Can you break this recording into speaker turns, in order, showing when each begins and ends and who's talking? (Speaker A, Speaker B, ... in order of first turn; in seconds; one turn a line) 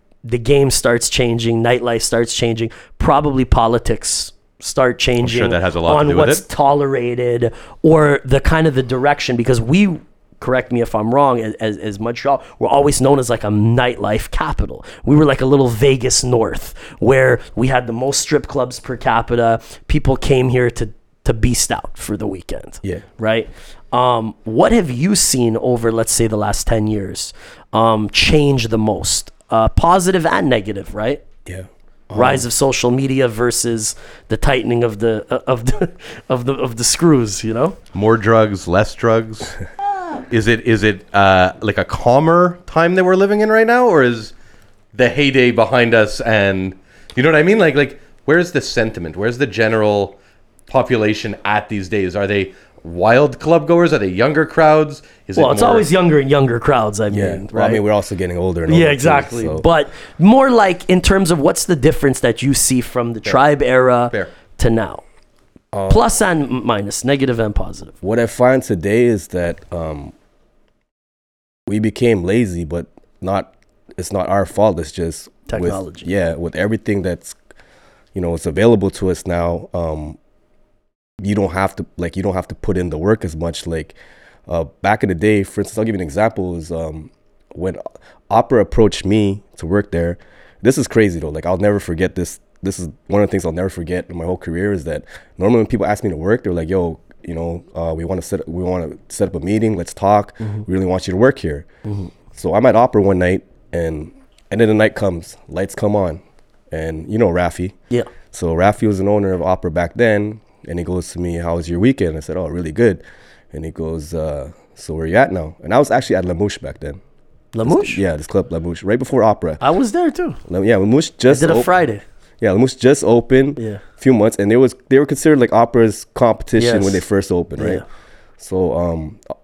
Speaker A: 0.2-31.2
Speaker B: 5.2-6.4
Speaker C: 31.4-32.5
Speaker A: 32.1-37.8
Speaker B: 37.9-39.6
Speaker B: 40.3-44.3
Speaker B: 44.9-50.1
Speaker B: 50.7-55.9
Speaker A: 55.4-57.8
Speaker C: 57.1-59.6
Speaker A: 58.7-65.0
Speaker C: 65.7-66.0
Speaker A: 65.9-67.9
Speaker C: 68.0-70.1
Speaker C: 71.7-77.3
Speaker A: 75.5-76.1
Speaker C: 78.1-80.2
Speaker C: 81.2-83.9
Speaker C: 84.5-101.7
Speaker C: 102.3-107.8
Speaker C: 108.3-113.0
Speaker C: 113.5-117.0
Speaker A: 117.5-118.0
Speaker C: 117.6-119.6
Speaker A: 119.6-120.4
Speaker C: 120.5-121.7
Speaker A: 121.3-122.0
Speaker C: 122.4-127.8
Speaker A: 126.6-127.0
Speaker A: 127.6-127.8
Speaker C: 128.4-129.2